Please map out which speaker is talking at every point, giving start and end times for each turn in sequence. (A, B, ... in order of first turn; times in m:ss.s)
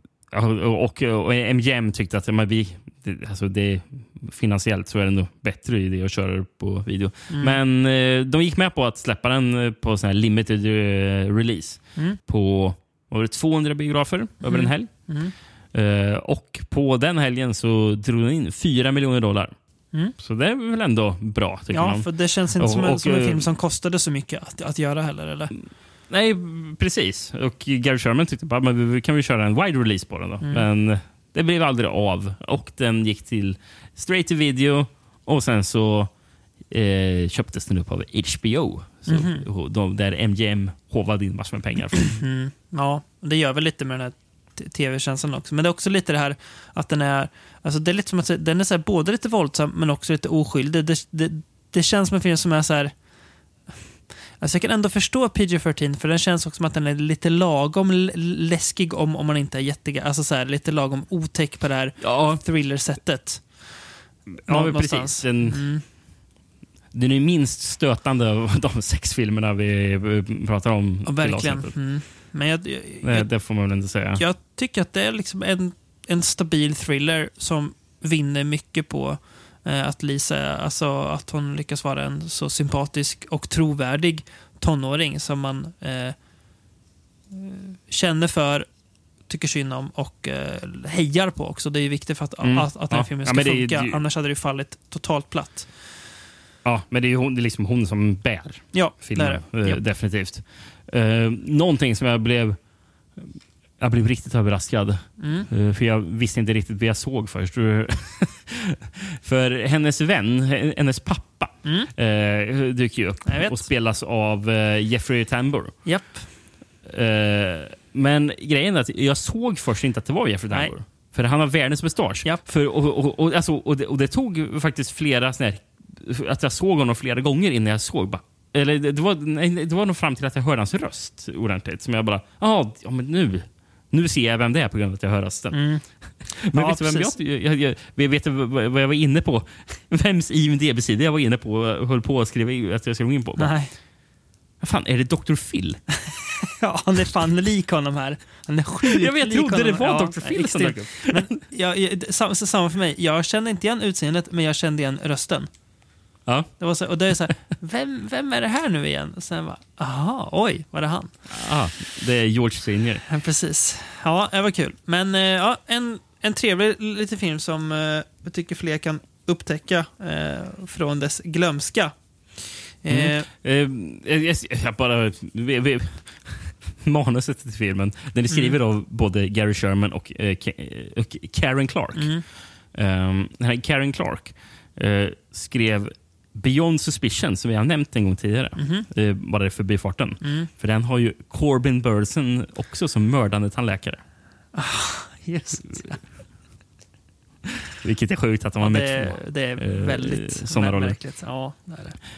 0:00.3-0:19.5 A
0:07.3-0:07.6 B
0:14.4-0:15.3 B
0:20.1-0:23.5 A
0:21.7-0:25.5 B
0:26.1-0:36.1 A
0:36.7-0:42.2 A
0:39.0-0:39.4 B
0:42.1-0:52.9 B
0:54.4-1:03.9 B
1:02.0-1:02.4 A
1:04.3-1:05.7 A
1:04.4-1:05.8 B
1:06.9-1:11.7 A
1:11.0-1:13.3 B
1:13.0-1:14.2 A
1:14.1-1:26.2 B
1:27.3-1:28.7 B
1:29.3-1:35.9 B
1:32.4-1:34.0 A
1:36.6-1:42.6 A
1:38.7-1:39.8 B
1:43.2-1:55.8 A
1:45.2-1:45.5 B
1:51.6-1:51.9 B
1:53.2-1:53.6 B
1:55.8-1:56.3 B
1:56.8-2:23.6 A
2:15.5-2:17.1 B
2:23.4-2:23.7 B
2:24.6-2:25.8 A
2:26.6-2:35.5 B
2:28.8-2:31.3 A
2:36.2-2:36.5 A
2:36.6-2:41.1 B
2:41.3-2:43.0 A
2:43.1-2:53.3 B
2:52.9-3:14.0 A
2:58.3-2:58.6 B
3:01.9-3:02.2 B
3:08.6-3:08.9 B
3:10.2-3:10.5 B
3:14.5-3:16.1 B
3:17.8-3:21.0 A
3:18.6-3:22.0 B